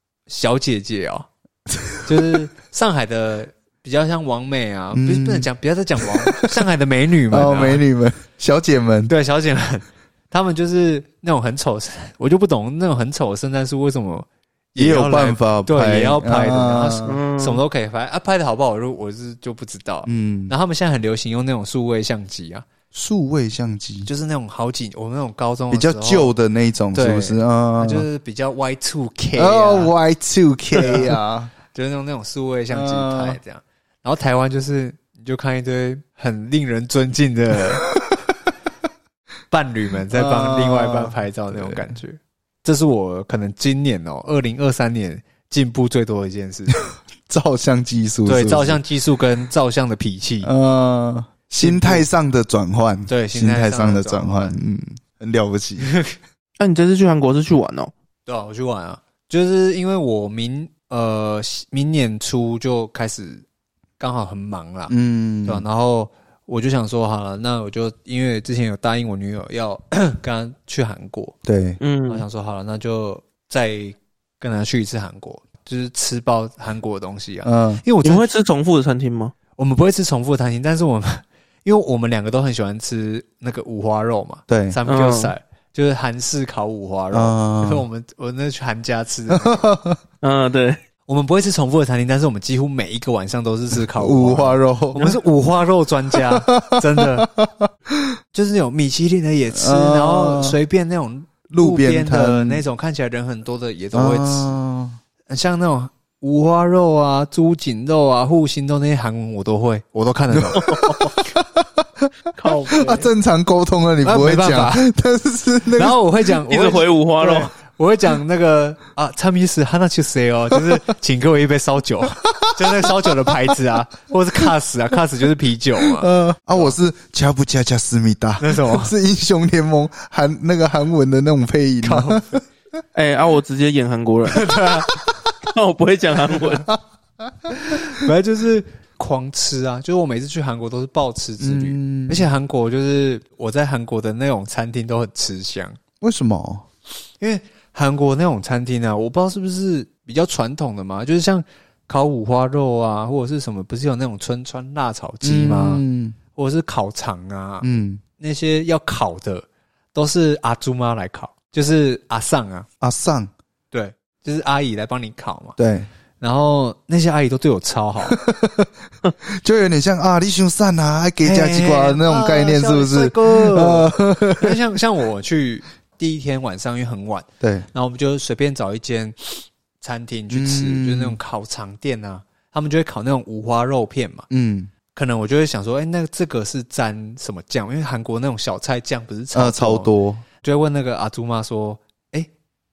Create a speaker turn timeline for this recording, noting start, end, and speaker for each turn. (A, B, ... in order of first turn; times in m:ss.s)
0:00.3-0:01.3 A
0:01.7-0:02.4 B
0:02.0-0:07.8 A
0:04.9-0:05.5 B
0:06.0-0:06.4 B
0:07.3-0:09.1 B
0:09.1-0:22.6 A
0:14.8-0:17.2 B
0:17.0-0:17.6 C
0:20.0-0:20.5 B
0:22.9-0:24.1 B
0:24.0-0:26.3 A
0:25.7-0:28.1 B
0:26.9-0:29.9 A
0:29.3-0:31.5 B
0:30.8-0:31.2 A
0:31.7-0:37.9 A
0:32.7-0:33.4 B
0:39.5-0:46.7 A
0:40.1-0:41.9 B
0:47.3-0:48.8 B
0:48.2-0:50.5 A
0:50.4-0:55.9 B
0:51.6-0:52.0 A
0:53.1-0:54.6 A
0:55.8-0:56.1 A
0:56.6-0:57.9 C
0:58.2-1:03.4 A
1:04.0-1:04.9 A
1:04.9-1:05.6 B
1:05.4-1:11.4 A
1:11.4-1:11.8 B
1:11.8-1:12.2 C
1:12.1-1:18.3 A
1:17.4-1:17.8 B
1:18.0-1:19.3 C
1:19.6-1:29.7 A
1:24.5-1:24.8 B
1:24.9-1:25.3 C
1:27.1-1:27.8 B
1:29.3-1:30.0 B
1:30.2-1:30.8 C
1:31.1-1:37.3 A
1:33.9-1:35.0 B
1:36.3-1:38.1 B
1:38.3-1:44.5 A
1:39.5-1:40.6 B
1:41.5-1:42.6 B
1:43.9-1:45.0 B
1:45.3-1:50.7 A
1:50.3-1:52.1 B
1:50.6-1:51.1 C
1:52.4-1:53.1 C
1:52.7-1:56.0 B
1:54.0-1:54.9 A
1:55.8-2:06.7 A
1:56.5-1:57.5 C
2:02.3-2:03.6 B
2:05.8-2:12.4 B
2:08.4-2:08.9 A
2:11.8-2:12.4 A
2:12.9-2:14.5 C
2:14.3-2:15.0 A
2:15.5-2:16.7 C
2:17.5-2:17.7 B
2:17.6-2:25.8 A
2:21.4-2:22.3 B
2:26.0-2:26.6 B
2:27.2-2:35.8 A
2:35.2-2:36.2 B
2:36.3-2:37.7 A
2:37.6-2:38.0 B
2:38.2-2:42.7 A
2:42.8-2:43.3 B
2:43.7-2:45.6 A
2:45.6-2:45.9 B
2:46.2-2:48.2 A
2:48.1-2:48.7 B
2:49.3-2:54.6 B
2:51.2-3:04.3 A
2:57.4-2:57.7 B
3:00.3-3:01.2 B
3:04.3-3:04.7 B
3:04.9-3:12.3 A
3:09.3-3:10.2 B